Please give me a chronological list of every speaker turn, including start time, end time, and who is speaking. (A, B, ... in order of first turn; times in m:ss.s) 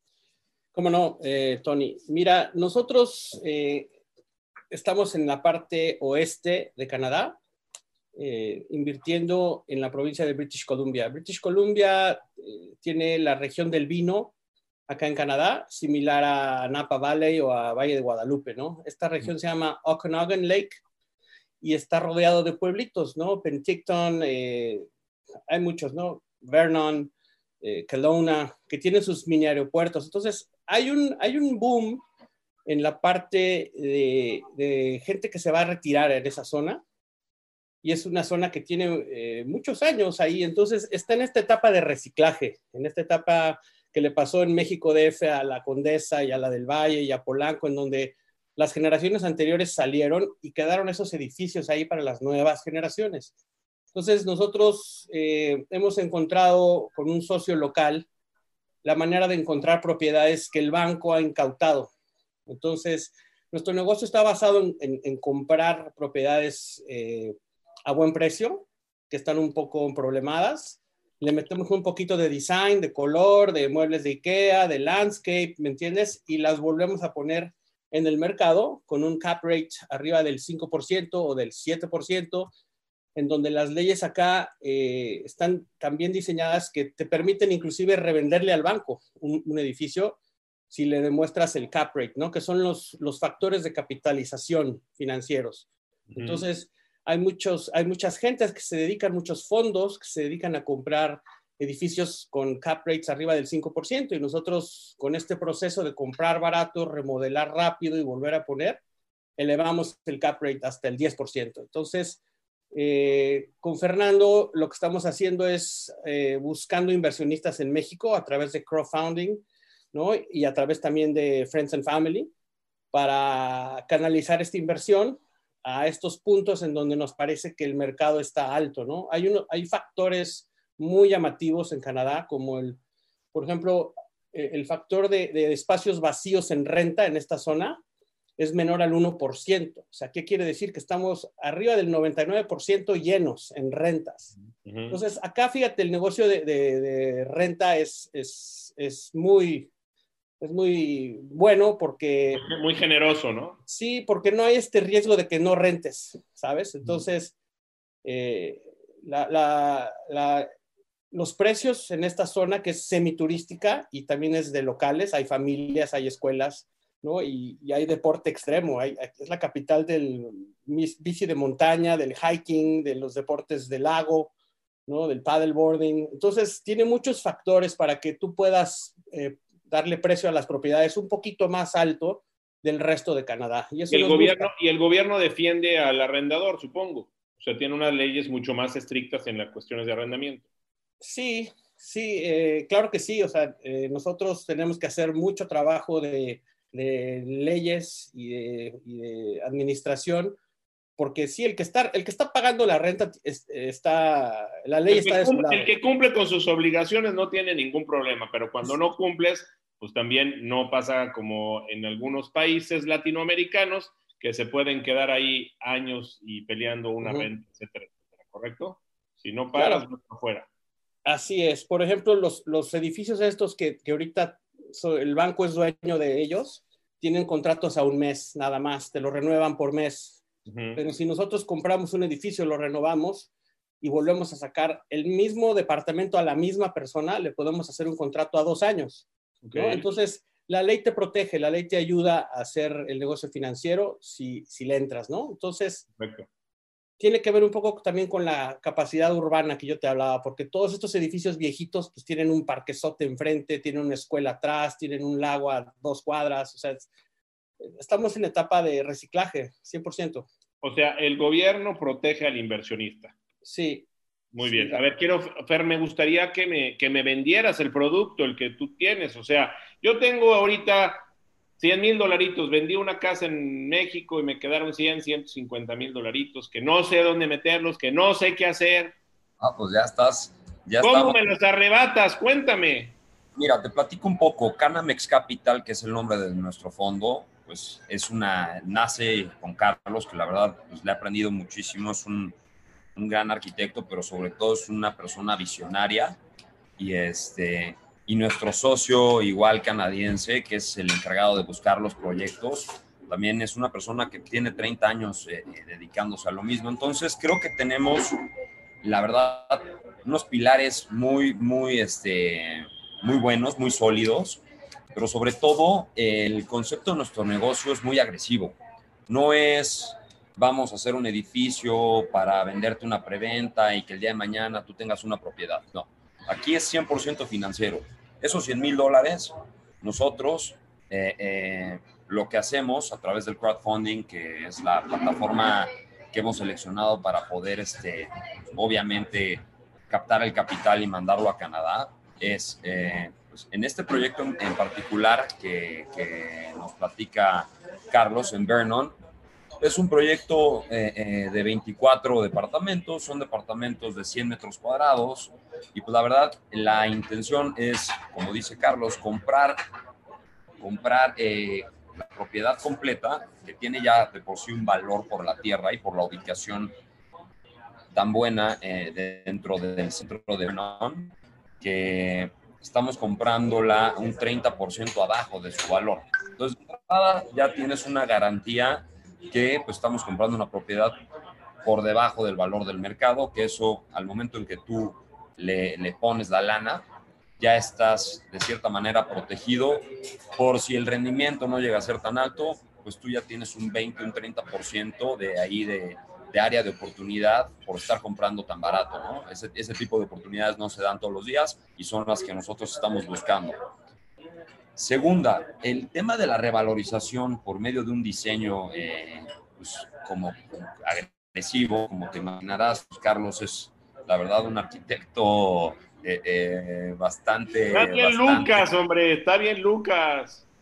0:00.7-0:03.9 A
0:04.7-0:07.4 A
0:08.2-0:14.3 A
0:14.9-0:20.8 A
0:21.6-0:24.9 A
0:25.5-0:32.0 A
0:32.6-0:36.8 A
0:37.8-0:53.3 A
0:53.9-0:58.0 A
0:58.8-1:01.9 A
1:02.5-1:22.5 A
1:23.2-1:30.2 A
1:30.7-1:35.7 A
1:36.1-1:36.4 B
1:36.2-1:48.8 A
1:49.4-1:52.2 A
1:52.7-2:02.3 A
2:02.9-2:12.8 A
2:13.3-2:17.8 A
2:18.4-2:24.3 A
2:24.6-2:25.0 B
2:24.9-2:29.7 A
2:30.4-2:32.4 A
2:32.3-2:33.6 B
2:33.7-2:37.3 A
2:38.0-2:40.5 A
2:41.1-2:54.3 A
2:54.9-3:04.5 A
3:03.9-3:10.4 B
3:11.0-3:20.4 A
3:21.0-3:25.7 A
3:24.9-3:40.5 B
3:37.0-3:37.3 A
3:39.6-3:39.8 A
3:41.0-3:50.2 A
3:50.4-3:50.8 B
3:50.8-3:53.3 A
3:53.8-4:05.8 A
3:59.4-3:59.8 B
4:06.0-4:06.3 B
4:07.0-4:16.9 A
4:17.8-4:20.3 A
4:20.6-4:23.1 B
4:23.4-4:23.9 A
4:24.3-4:31.0 B
4:24.4-4:24.8 A
4:31.6-4:38.9 B
4:39.4-4:41.3 C
4:40.8-4:43.0 B
4:43.4-4:52.3 C
4:53.0-4:56.2 C
4:56.8-5:08.3 C
5:08.8-5:14.4 C
5:14.9-5:18.6 C
5:19.1-5:49.0 C
5:49.6-5:59.6 C
6:00.6-6:06.7 C
6:07.9-6:21.0 C
6:21.6-6:26.8 C
6:27.4-6:29.8 C
6:30.4-6:43.6 C
6:44.8-6:58.7 C
6:57.7-7:00.4 B